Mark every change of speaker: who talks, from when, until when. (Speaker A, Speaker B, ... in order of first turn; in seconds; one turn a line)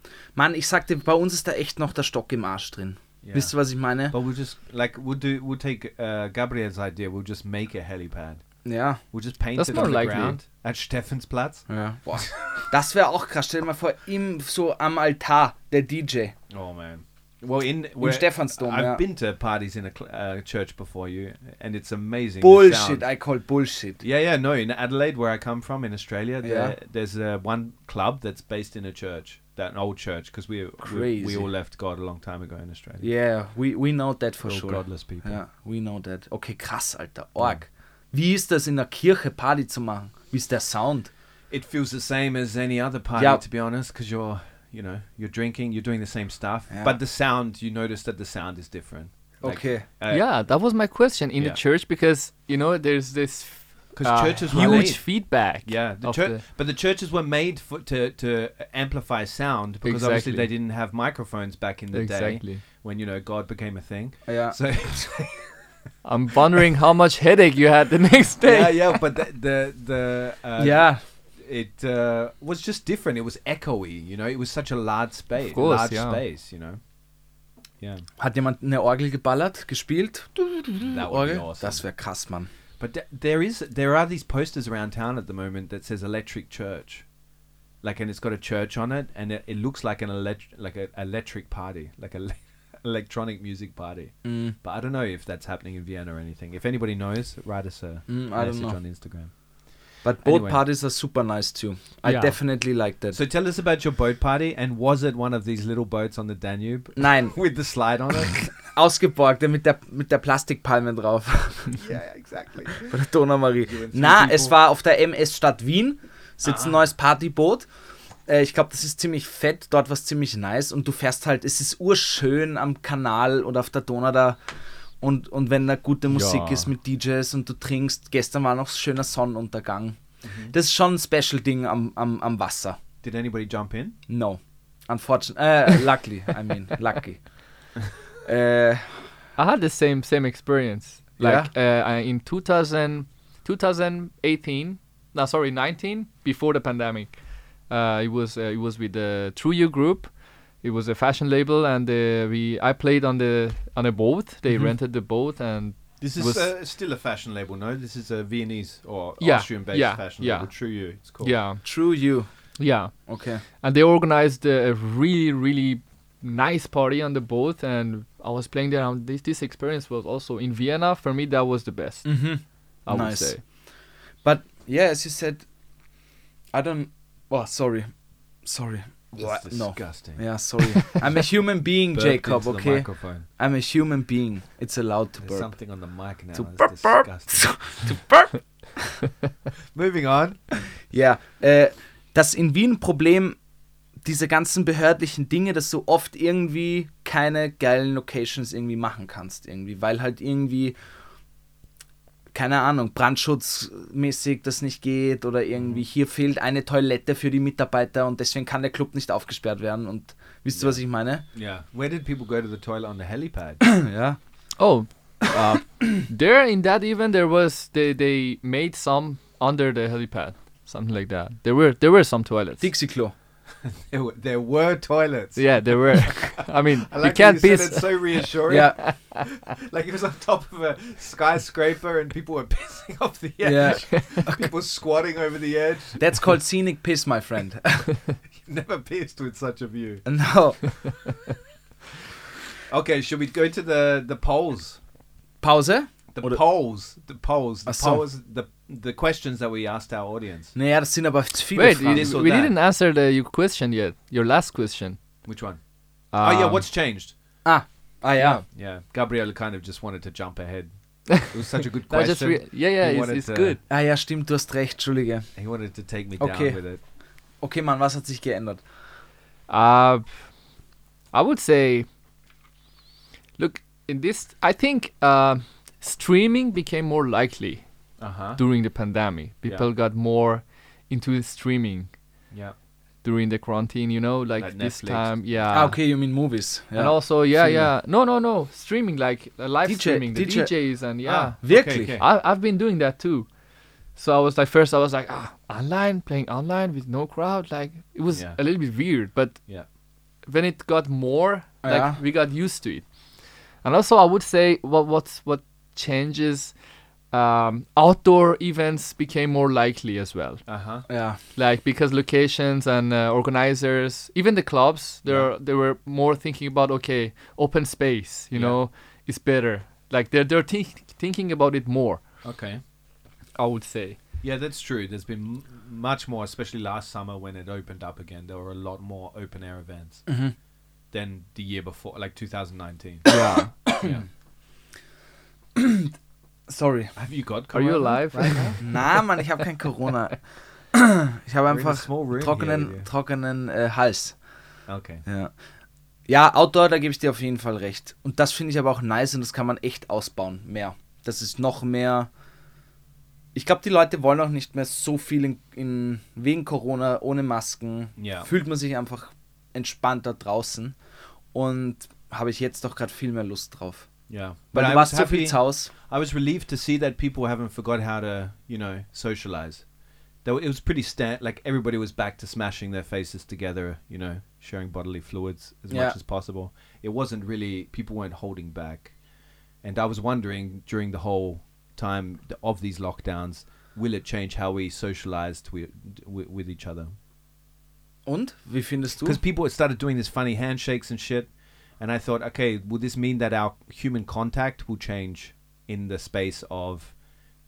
Speaker A: 0.3-4.2
Speaker B: 3.2-3.5
Speaker B: 4.1-8.4
Speaker A: 8.6-9.0
Speaker B: 9.1-11.7
Speaker C: 9.6-10.4
Speaker A: 11.7-16.3
Speaker B: 12.2-12.5
Speaker B: 16.5-23.0
Speaker A: 18.0-19.0
Speaker A: 22.4-24.0
Speaker B: 24.0-33.1
Speaker A: 26.4-26.7
Speaker A: 30.8-31.5
Speaker A: 33.0-41.1
Speaker B: 34.4-35.4
Speaker B: 41.5-50.2
Speaker A: 43.1-43.4
Speaker A: 46.7-47.0
Speaker A: 49.4-49.9
Speaker C: 50.1-56.4
Speaker B: 53.9-65.5
Speaker A: 54.5-54.9
Speaker C: 59.8-60.5
Speaker C: 61.9-62.6
Speaker A: 64.2-64.6
Speaker C: 66.0-69.0
Speaker B: 68.4-76.8
Speaker A: 70.6-71.0
Speaker C: 75.5-76.2
Speaker B: 77.8-78.0
Speaker A: 78.2-82.5
Speaker B: 80.8-81.8
Speaker B: 82.8-87.0
Speaker B: 87.8-99.3
Speaker A: 94.2-94.5
Speaker A: 98.1-98.8
Speaker A: 100.0-103.2
Speaker B: 100.2-100.6
Speaker C: 102.0-102.3
Speaker B: 103.1-108.4
Speaker A: 107.0-107.3
Speaker A: 108.6-111.8
Speaker B: 111.7-113.0
Speaker A: 112.8-117.7
Speaker B: 113.6-114.5
Speaker B: 116.4-116.8
Speaker A: 118.3-124.4
Speaker A: 125.0-130.0
Speaker C: 126.1-126.7
Speaker B: 130.2-130.5
Speaker A: 130.5-132.8
Speaker B: 133.0-134.0
Speaker A: 134.1-137.3
Speaker A: 138.2-139.1
Speaker C: 139.4-147.1
Speaker A: 141.2-141.5
Speaker C: 147.7-150.1
Speaker C: 150.6-156.4
Speaker B: 156.0-161.3
Speaker C: 159.2-160.5
Speaker C: 161.1-161.6
Speaker A: 161.6-162.3
Speaker C: 162.6-163.1
Speaker A: 163.1-163.4
Speaker C: 163.6-172.3
Speaker A: 172.0-173.5
Speaker C: 172.8-173.4
Speaker A: 174.2-175.4
Speaker A: 176.5-177.9
Speaker A: 178.4-185.5
Speaker B: 179.1-180.2
Speaker B: 181.9-183.3
Speaker B: 185.2-187.8
Speaker A: 186.3-188.8
Speaker B: 189.7-190.4
Speaker A: 190.9-193.4
Speaker A: 194.0-200.8
Speaker A: 202.3-211.2
Speaker B: 205.6-205.8
Speaker B: 210.5-210.8
Speaker B: 211.3-213.7
Speaker A: 213.6-214.2
Speaker C: 214.6-222.7
Speaker A: 222.6-223.1
Speaker B: 223.6-236.1
Speaker C: 225.3-229.2
Speaker A: 228.5-228.8
Speaker A: 233.4-234.5
Speaker A: 236.0-237.9
Speaker B: 238.3-240.0
Speaker A: 240.0-240.7
Speaker B: 242.7-244.8
Speaker A: 245.4-246.4
Speaker B: 246.1-250.5
Speaker A: 247.7-248.0
Speaker A: 250.5-252.2
Speaker C: 251.5-255.0
Speaker B: 251.8-252.5
Speaker B: 255.2-255.6
Speaker C: 256.1-256.6
Speaker B: 256.2-257.1
Speaker A: 257.4-258.4
Speaker B: 258.3-263.6
Speaker C: 261.9-263.6
Speaker A: 263.7-265.3
Speaker B: 265.3-266.8
Speaker A: 266.2-266.6
Speaker A: 267.4-268.6
Speaker C: 269.5-270.1
Speaker C: 271.1-271.9
Speaker C: 273.4-277.6
Speaker B: 278.0-278.4
Speaker C: 278.4-281.9
Speaker C: 283.0-285.8
Speaker B: 284.4-285.2
Speaker A: 285.5-287.7
Speaker C: 286.7-293.3
Speaker A: 289.6-290.5
Speaker B: 291.0-292.0
Speaker A: 291.4-292.0
Speaker C: 293.9-299.4
Speaker B: 298.1-298.4
Speaker C: 300.2-302.8
Speaker A: 301.6-302.0
Speaker C: 303.6-306.5
Speaker C: 307.1-310.5
Speaker B: 310.4-310.8
Speaker A: 310.9-311.2
Speaker C: 311.3-322.0
Speaker B: 315.1-315.3
Speaker B: 318.3-318.6
Speaker B: 322.2-322.6
Speaker C: 323.4-324.0
Speaker B: 324.2-330.1
Speaker A: 330.1-330.3
Speaker B: 330.9-333.0
Speaker C: 333.1-333.6
Speaker A: 333.1-334.0
Speaker A: 335.6-335.9
Speaker A: 336.5-336.9
Speaker B: 336.9-338.6
Speaker C: 337.5-338.6
Speaker A: 338.6-340.2
Speaker A: 340.7-344.1
Speaker B: 341.5-342.9
Speaker B: 344.7-345.0
Speaker A: 345.1-345.3
Speaker A: 346.1-352.1
Speaker A: 353.3-360.7
Speaker B: 358.0-358.3
Speaker A: 361.3-363.9
Speaker B: 364.1-369.6
Speaker A: 364.5-365.7
Speaker B: 370.2-378.9
Speaker A: 375.7-376.0
Speaker B: 379.6-386.9
Speaker A: 388.1-389.2
Speaker B: 389.0-396.9